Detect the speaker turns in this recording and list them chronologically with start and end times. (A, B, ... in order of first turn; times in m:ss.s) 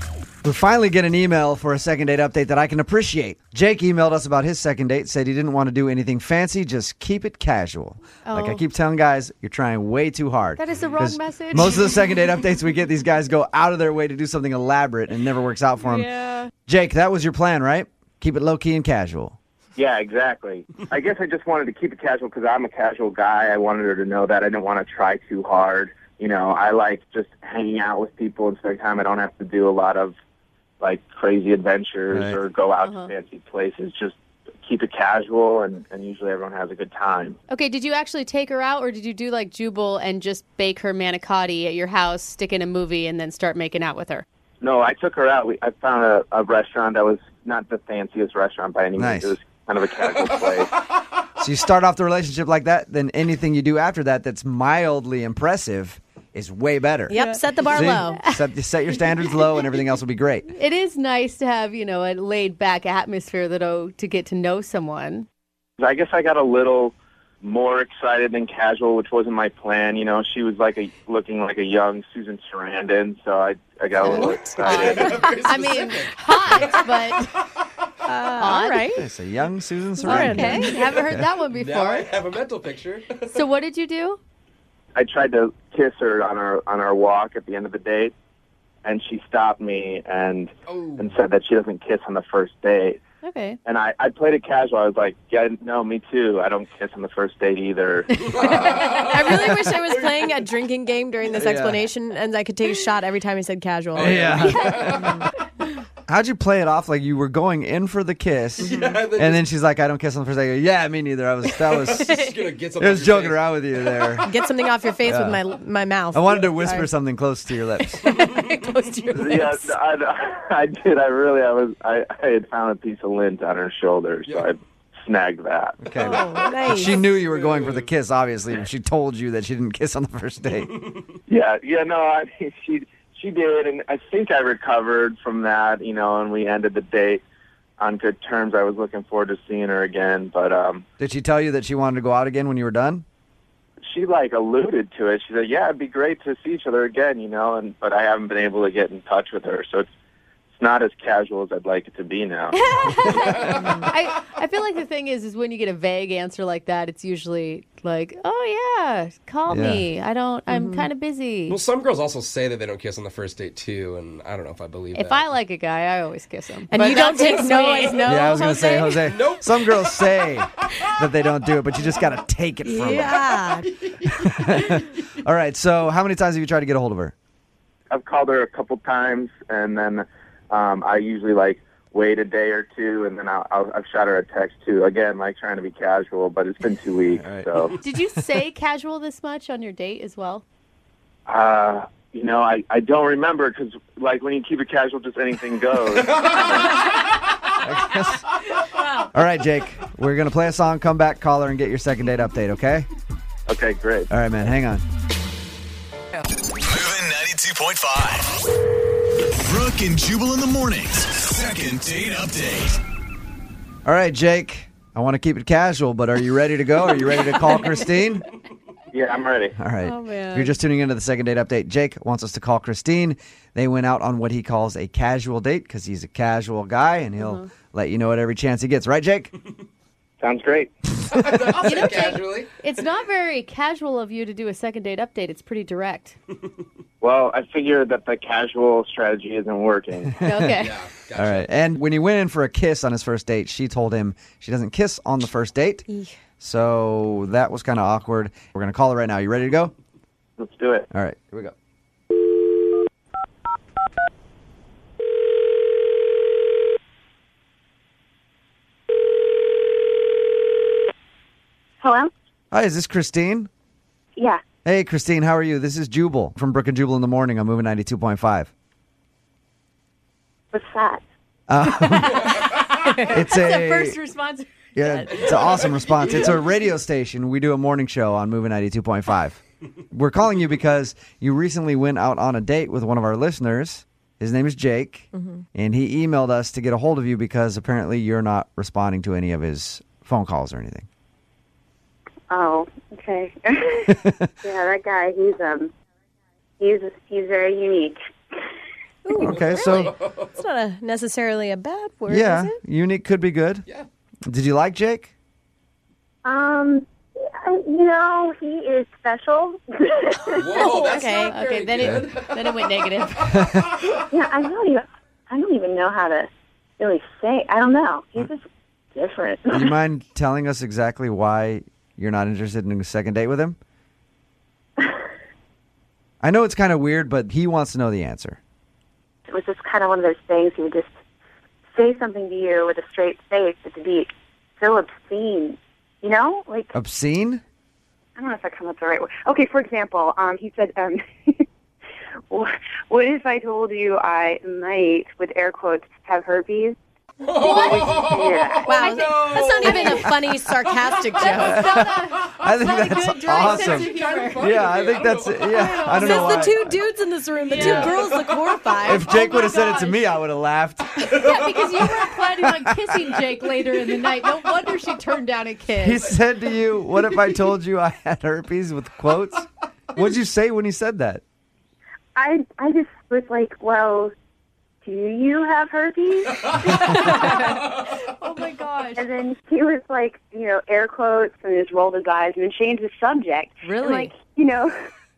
0:00.4-0:16.1 A
0:08.2-0:08.6 B
0:10.6-0:11.8 B
0:15.9-0:16.5 B
0:16.7-0:19.3 A
0:19.8-0:30.1 C
0:30.8-0:37.4 C
0:32.1-0:32.4 A
0:32.8-0:33.1 B
0:37.5-0:44.2 B
0:44.6-0:50.7 C
0:49.0-0:49.3 A
0:51.4-1:00.5 A
0:57.1-0:58.2 D
0:57.2-0:58.4 B
1:00.5-1:05.2 B
1:05.8-1:15.0 C
1:14.0-1:14.6 D
1:14.0-1:17.3 B
1:14.6-1:17.6 E
1:18.0-1:19.0 D
1:18.4-1:19.0 B
1:19.0-1:21.2 A
1:20.0-1:20.7 D
1:20.0-1:22.1 B
1:20.6-1:23.4 E
1:23.3-1:24.2 B
1:24.9-1:28.1 C
1:28.8-1:33.0 C
1:30.7-1:31.2 E
1:33.2-1:33.6 B
1:33.6-1:38.5 C
1:38.1-1:40.3 E
1:38.8-1:45.3 D
1:41.3-1:41.9 A
1:43.9-1:45.1 E
1:44.0-1:45.1 A
1:46.1-1:52.2 A
1:48.6-1:49.4 E
1:51.6-1:54.0 E
1:52.0-1:52.3 D
1:52.8-1:54.3 A
1:54.2-1:56.9 D
1:55.0-1:55.4 A
1:56.1-1:58.0 A
1:57.8-1:59.7 D
1:59.1-2:05.8 C
2:04.2-2:04.5 E
2:05.8-2:10.7 A
2:06.0-2:07.0 D
2:06.9-2:07.9 E
2:11.3-2:17.2 C
2:17.8-2:20.8 C
2:21.0-2:23.0 A
2:23.9-2:29.9 C
2:30.5-2:32.6 C
2:32.5-2:41.6 B
2:33.0-2:33.9 E
2:33.6-2:33.9 D
2:39.5-2:39.9 A
2:40.5-2:40.9 D
2:41.5-2:45.3 E
2:44.9-2:48.2 B
2:46.7-2:49.0 D
2:46.9-2:47.4 E
2:48.0-2:53.3 A
2:49.0-2:50.0 E
2:52.6-2:53.7 D
2:53.8-2:54.3 E
2:54.0-2:57.1 A
2:57.9-3:07.7 C
3:07.2-3:07.7 A
3:07.8-3:10.4 B
3:11.3-3:16.8 C
3:16.1-3:16.4 E
3:17.6-3:18.2 A
3:19.1-3:22.9 A
3:23.5-3:24.1 C
3:24.1-3:24.8 A
3:26.6-3:28.4 F
3:29.4-3:32.8 F
3:33.8-3:38.2 A
3:38.9-3:39.6 C
3:39.6-3:49.3 A
3:39.8-3:40.6 D
3:47.2-3:47.5 B
3:50.2-3:50.7 C
3:51.1-3:52.5 E
3:51.6-3:56.2 B
3:57.0-4:00.2 C
4:00.2-4:00.8 B
4:00.5-4:01.5 E
4:01.1-4:05.9 A
4:05.9-4:06.2 D
4:06.4-4:09.7 A
4:10.4-4:10.9 C
4:10.9-4:11.5 A
4:21.8-4:22.1 G
4:22.5-4:23.5 A
4:24.2-4:24.4 G
4:24.6-4:28.5 A
4:30.5-4:31.0 G
4:31.5-4:32.4 A
4:32.1-4:35.9 B
4:33.1-4:34.0 A
4:34.7-4:50.9 A
4:35.7-4:36.3 E
4:45.1-4:45.4 D
4:52.3-4:55.7 G
4:56.6-4:58.0 G
4:59.0-5:02.6 D
4:59.2-5:00.0 A
4:59.4-5:00.4 E
5:02.1-5:03.6 A
5:04.3-5:05.1 A
5:06.2-5:10.8 G
5:10.3-5:14.0 E
5:10.7-5:11.3 D
5:11.3-5:13.5 B
5:11.8-5:12.0 A
5:13.3-5:13.7 A
5:14.1-5:16.3 G
5:16.8-5:19.7 G
5:19.5-5:23.6 A
5:26.2-5:28.4 A
5:29.3-5:30.9 G
5:31.7-5:36.7 G
5:36.7-5:37.4 A
5:38.2-5:41.4 G
5:42.3-5:46.8 G
5:47.2-5:49.9 E
5:47.3-5:48.2 B
5:47.4-5:49.1 G
5:48.6-5:51.7 D
5:48.7-5:50.1 B
5:51.1-5:54.5 B
5:51.4-5:56.8 A
5:53.4-5:56.1 E
5:55.5-5:56.7 B
5:55.8-5:59.1 D
5:57.4-5:58.1 B
5:57.5-5:57.9 A
5:57.8-5:58.8 E
5:58.8-6:01.1 A
5:58.9-6:00.1 B
6:01.0-6:06.1 B
6:01.2-6:01.5 E
6:02.5-6:02.8 A
6:05.7-6:11.2 A
6:12.2-6:14.1 G
6:14.8-6:17.2 G
6:16.6-6:19.1 B
6:16.9-6:17.9 E
6:19.0-6:24.8 G
6:23.6-6:24.1 D